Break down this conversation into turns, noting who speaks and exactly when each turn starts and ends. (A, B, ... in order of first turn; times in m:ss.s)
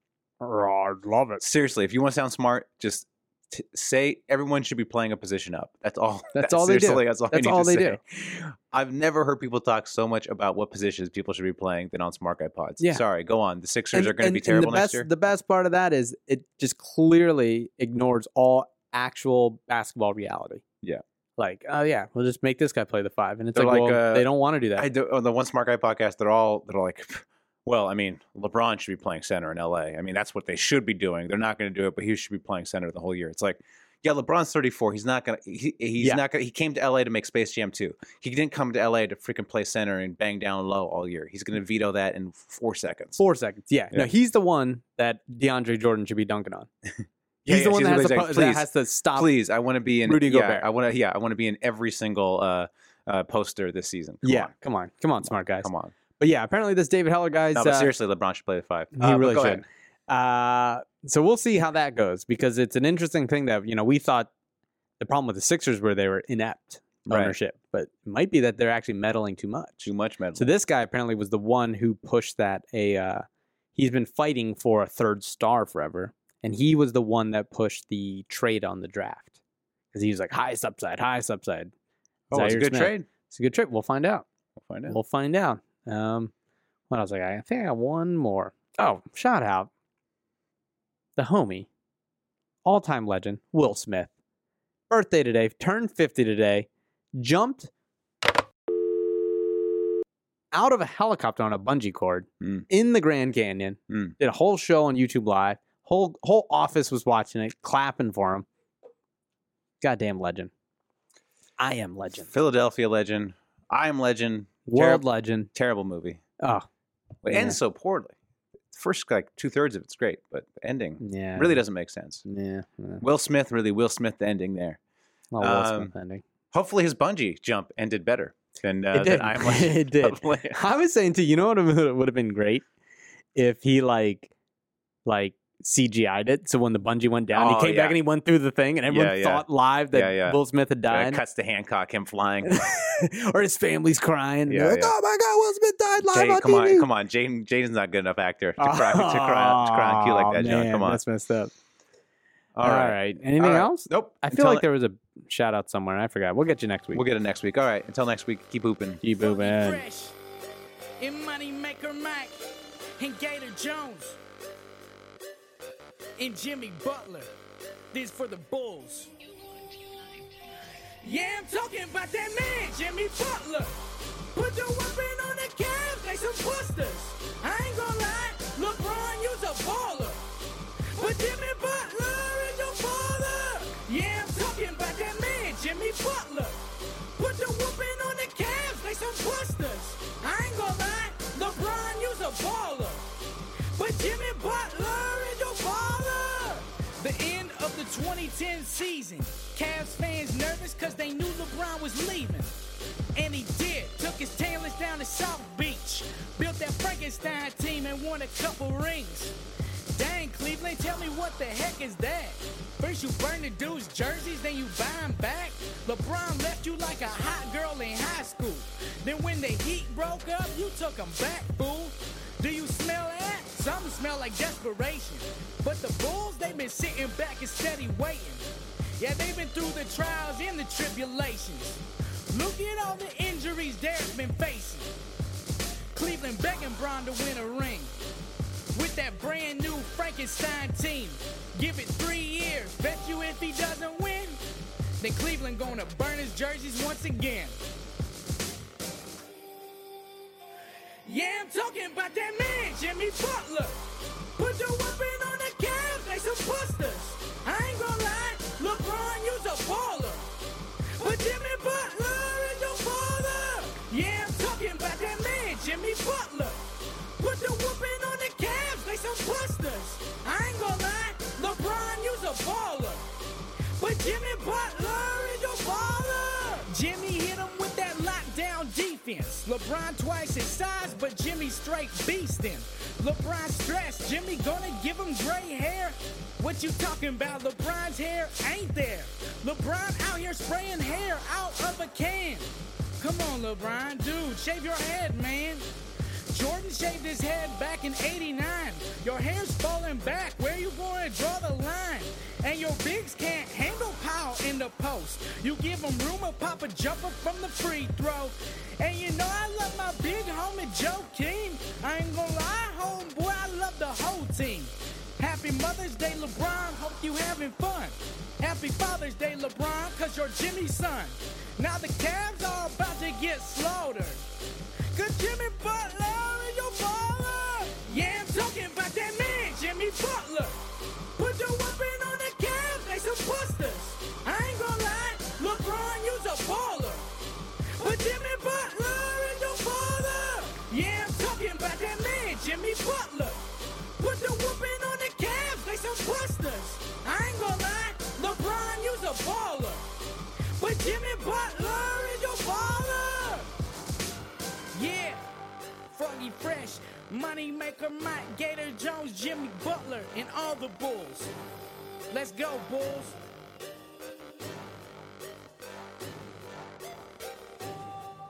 0:00.4-0:01.4 A
0:01.4-0:15.1 B
0:06.3-0:08.0 A
0:13.9-0:20.6 A
0:21.4-0:24.9 A
0:23.5-0:43.2 B
0:43.2-0:46.7 A
0:47.4-0:54.5 B
0:47.5-0:49.3 A
0:50.0-0:50.6 A
0:54.2-0:57.9 A
0:55.2-0:55.9 B
0:57.5-0:59.6 B
0:59.0-1:04.3 A
1:05.0-1:13.2 A
1:07.0-1:07.4 B
1:09.8-1:10.5 B
1:13.8-1:19.3 A
1:19.9-1:21.7 A
1:22.3-1:23.0 B
1:22.3-1:24.2 A
1:24.6-1:25.0 B
1:24.9-1:26.3 A
1:26.9-1:29.7 A
1:31.2-1:31.7 A
1:32.6-1:34.1 A
1:34.9-1:37.7 A
1:40.5-1:48.4 A
1:42.4-1:42.6 B
1:43.9-1:44.1 B
1:49.8-1:50.5 A
1:51.6-1:52.3 A
1:52.3-1:56.2 B
1:54.7-1:55.5 A
1:56.4-1:56.6 A
1:57.2-1:58.1 B
1:57.3-1:57.6 A
1:58.7-2:02.2 B
2:01.0-2:01.6 A
2:02.2-2:03.0 A
2:03.0-2:04.8 B
2:05.3-2:06.2 A
2:05.4-2:05.9 B
2:06.5-2:10.6 B
2:08.9-2:12.6 A
2:13.4-2:14.3 A
2:15.0-2:21.2 A
2:17.3-2:18.0 B
2:18.9-2:22.6 B
2:22.4-2:26.9 A
2:24.5-2:24.9 B
2:26.1-2:31.0 B
2:28.6-2:31.5 A
2:32.5-2:34.6 B
2:32.6-2:37.0 A
2:36.9-2:39.0 B
2:39.0-2:39.8 A
2:39.2-2:40.2 C
2:41.0-2:42.4 C
2:43.0-2:44.2 C
2:46.2-2:47.3 C
2:47.9-2:49.1 C
2:51.0-2:53.8 C
2:54.3-3:00.2 C
3:00.9-3:06.6 C
3:07.1-3:13.0 C
3:13.8-3:22.5 C
3:23.1-3:29.3 C
3:29.9-3:48.4 C
3:49.0-3:54.9 C
3:55.9-3:57.9 C
3:58.7-4:04.4 C
4:05.0-4:07.6 C
4:11.0-4:13.8 C
4:14.3-4:20.3 C
4:21.0-4:26.6 C
4:27.2-4:33.0 C
4:33.8-4:55.6 C
4:56.3-5:24.2 C
5:24.9-5:30.6 C
5:31.1-5:37.1 C
5:37.8-5:43.4 C
5:44.0-5:49.8 C
5:50.6-5:53.5 C
5:54.7-5:55.2 C
5:55.9-6:01.3 C
6:02.1-6:03.2 C